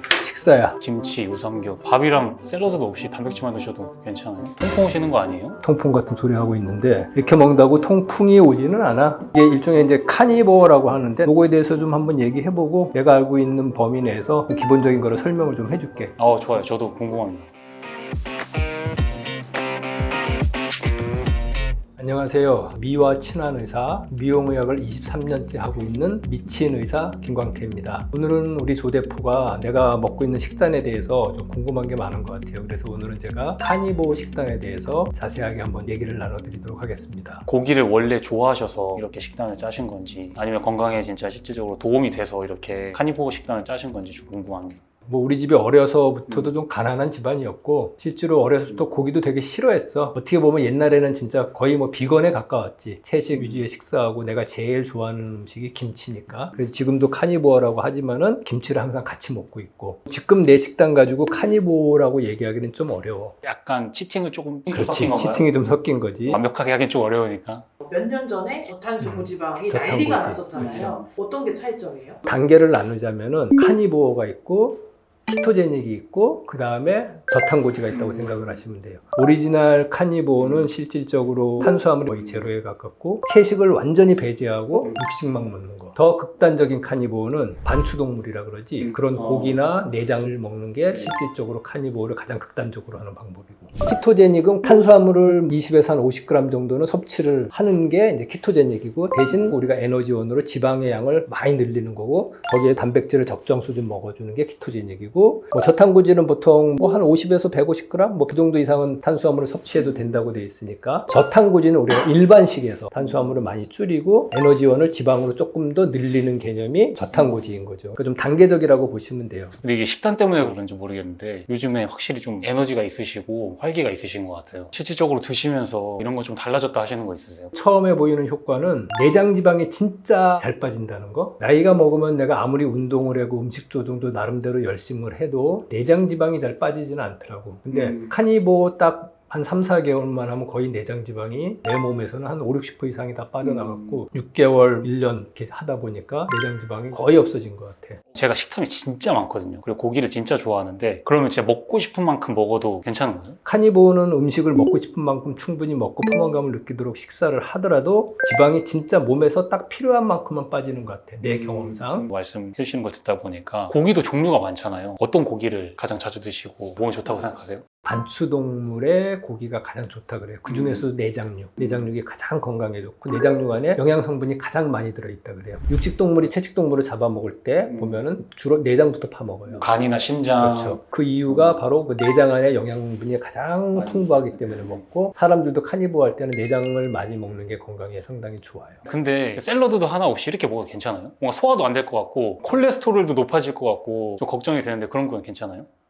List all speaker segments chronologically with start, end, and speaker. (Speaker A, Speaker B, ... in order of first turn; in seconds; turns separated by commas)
Speaker A: 0.2-0.8, Speaker B: 0.8-5.6, Speaker A: 5.6-16.1, Speaker B: 16.2-17.5, Speaker A: 22.0-37.5, Speaker B: 37.5-44.8, Speaker A: 45.1-63.4, Speaker B: 63.4-65.5, Speaker A: 64.7-66.4, Speaker B: 66.3-67.7, Speaker C: 67.8-72.2, Speaker A: 69.0-71.0, Speaker A: 72.3-119.6, Speaker B: 119.6-127.5, Speaker A: 127.5-148.0, Speaker B: 148.1-153.4, Speaker A: 153.4-162.1, Speaker B: 162.0-167.6, Speaker A: 167.8-179.7, Speaker B: 179.5-180.8, Speaker A: 180.4-188.8, Speaker B: 183.8-184.8, Speaker B: 188.9-195.7